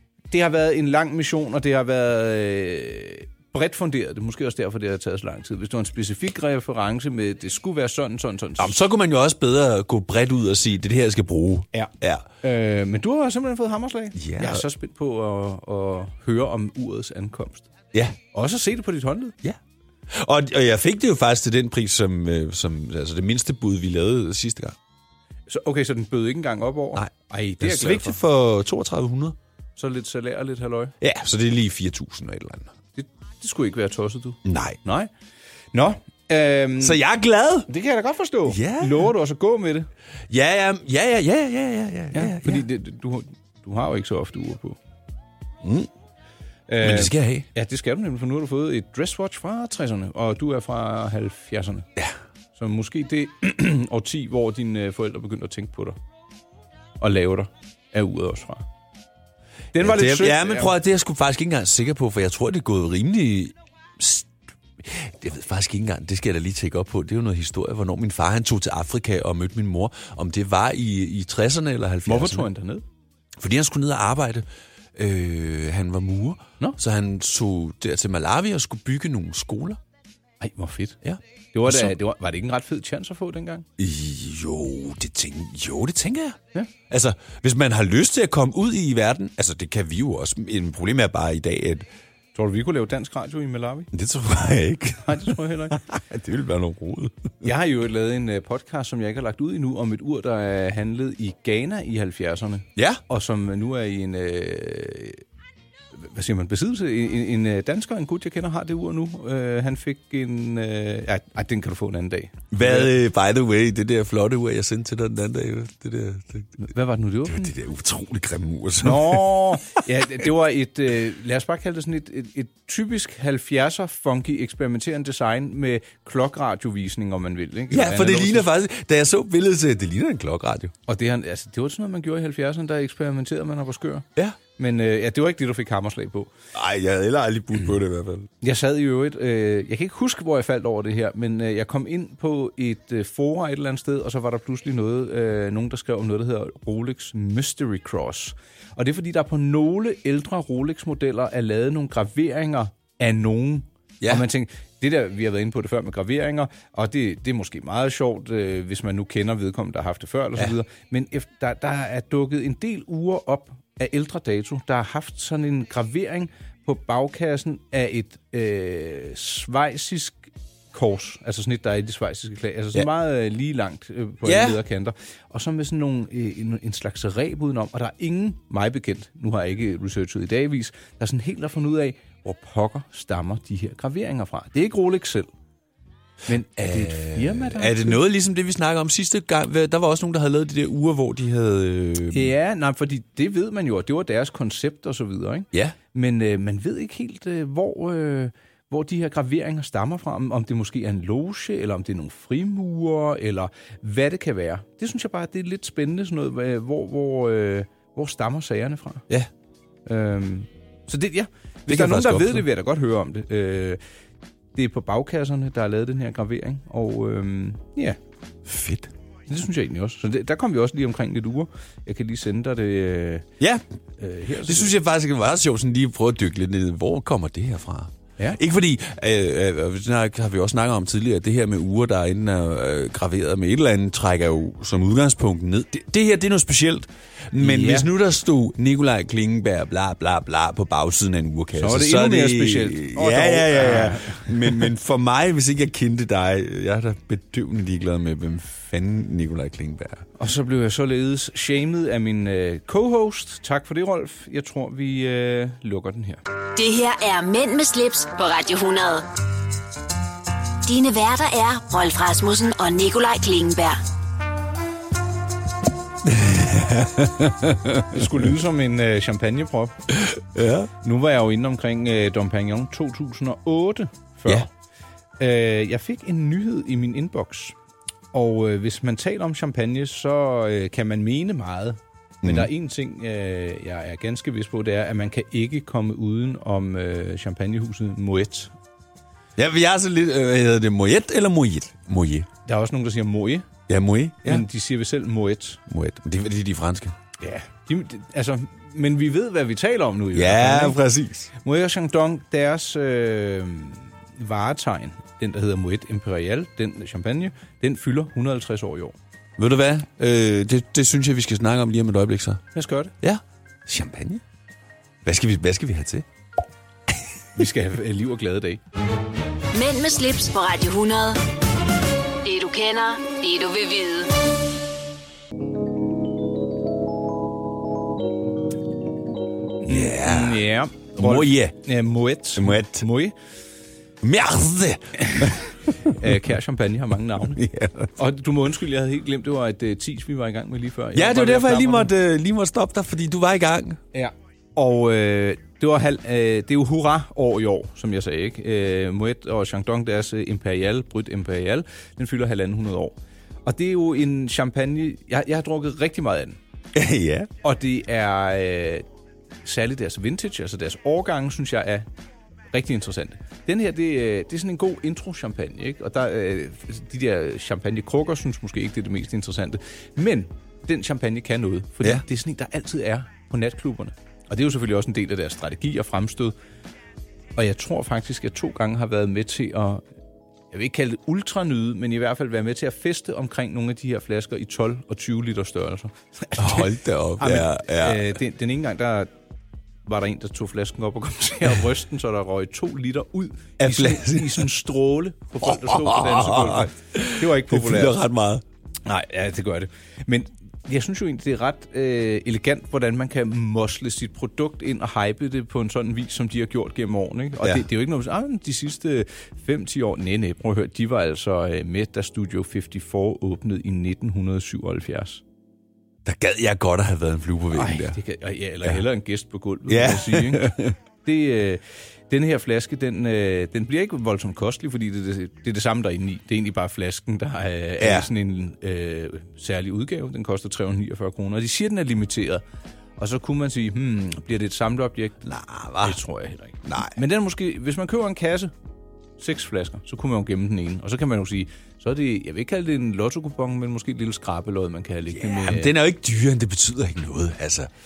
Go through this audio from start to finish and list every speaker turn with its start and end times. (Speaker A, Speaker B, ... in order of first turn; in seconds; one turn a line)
Speaker A: 0.3-8.8
Speaker B: 8.6-12.3
Speaker A: 11.7-17.7
Speaker B: 14.2-14.7
Speaker A: 18.3-19.4
Speaker B: 20.1-24.8
Speaker A: 25.5-28.2
Speaker B: 26.9-29.4
Speaker A: 29.8-30.9
Speaker B: 31.0-32.7
Speaker A: 33.0-35.1
Speaker B: 34.5-34.8
Speaker A: 35.7-37.0
Speaker B: 36.8-37.7
Speaker A: 37.7-39.9
Speaker B: 38.5-39.1
Speaker B: 40.3-42.6
Speaker A: 42.1-44.8
Speaker B: 45.6-45.9
Speaker A: 46.7-51.9
Speaker B: 46.8-47.5
Speaker A: 52.5-56.0
Speaker A: 57.0-58.6
Speaker A: 59.7-60.8
Speaker B: 59.8-72.5
Speaker A: 72.1-72.8
Speaker B: 73.4-79.8
Speaker A: 80.4-81.0
Speaker B: 81.0-82.0
Speaker A: 81.5-83.7
Speaker B: 83.8-91.9
Speaker A: 92.3-93.9
Speaker B: 93.9-97.4
Speaker A: 95.0-95.8
Speaker A: 97.4-105.2
Speaker B: 102.8-103.0
Speaker A: 106.0-112.9
Speaker B: 112.5-116.6
Speaker A: 116.6-117.5
Speaker B: 117.3-119.6
Speaker A: 118.8-128.5
Speaker B: 127.7-130.7
Speaker A: 130.9-136.3
Speaker B: 136.5-138.3
Speaker A: 138.4-185.3
Speaker B: 154.0-154.3
Speaker B: 174.2-174.6
Speaker A: 186.3-188.0
Speaker B: 186.6-192.3
Speaker A: 192.1-209.1
Speaker A: 209.9-213.8
Speaker B: 211.7-212.5
Speaker A: 214.6-218.0
Speaker B: 218.5-218.9
Speaker A: 219.3-223.3
Speaker A: 224.0-224.8
Speaker B: 224.4-250.1
Speaker A: 237.4-237.9
Speaker A: 241.6-244.7
Speaker A: 250.2-256.2
Speaker C: 256.6-259.1
Speaker C: 260.6-263.8
Speaker B: 266.0-268.3
Speaker A: 267.9-269.8
Speaker B: 269.9-270.7
Speaker A: 270.8-274.5
Speaker A: 275.2-277.6
Speaker A: 278.1-288.5
Speaker B: 282.2-282.5
Speaker B: 289.4-292.3
Speaker A: 292.5-293.5
Speaker B: 293.7-294.5
Speaker A: 294.2-295.6
Speaker B: 295.7-297.0
Speaker A: 297.2-300.8
Speaker B: 300.1-301.3
Speaker A: 301.4-309.0
Speaker B: 309.4-312.4
Speaker A: 312.5-312.9
Speaker B: 313.0-314.2
Speaker B: 315.0-316.1
Speaker A: 317.4-318.6
Speaker C: 319.5-321.2
Speaker C: 322.2-324.1
Speaker A: 329.6-333.1
Speaker B: 329.6-331.6
Speaker B: 332.4-332.9
Speaker B: 334.0-336.1
Speaker A: 335.0-335.3
Speaker A: 335.9-337.4
Speaker B: 337.3-337.9
Speaker A: 338.0-341.9
Speaker B: 340.9-343.8
Speaker A: 343.9-356.4
Speaker B: 356.7-357.3
Speaker A: 357.4-358.9
Speaker A: 359.4-361.9
Speaker A: 362.5-376.4
Speaker A: 377.4-379.8
Speaker A: 380.5-389.1
Speaker B: 386.4-388.2
Speaker A: 389.9-398.0
Speaker B: 393.6-394.5
Speaker B: 395.4-398.4
Speaker A: 398.9-415.2
Speaker B: 416.1-418.0
Speaker A: 417.5-432.4
Speaker B: 419.7-420.8
Speaker B: 427.8-428.1
Speaker A: 433.0-435.2
Speaker B: 435.2-436.0
Speaker A: 435.8-438.5
Speaker B: 436.6-437.0
Speaker A: 439.2-445.7
Speaker B: 445.1-447.7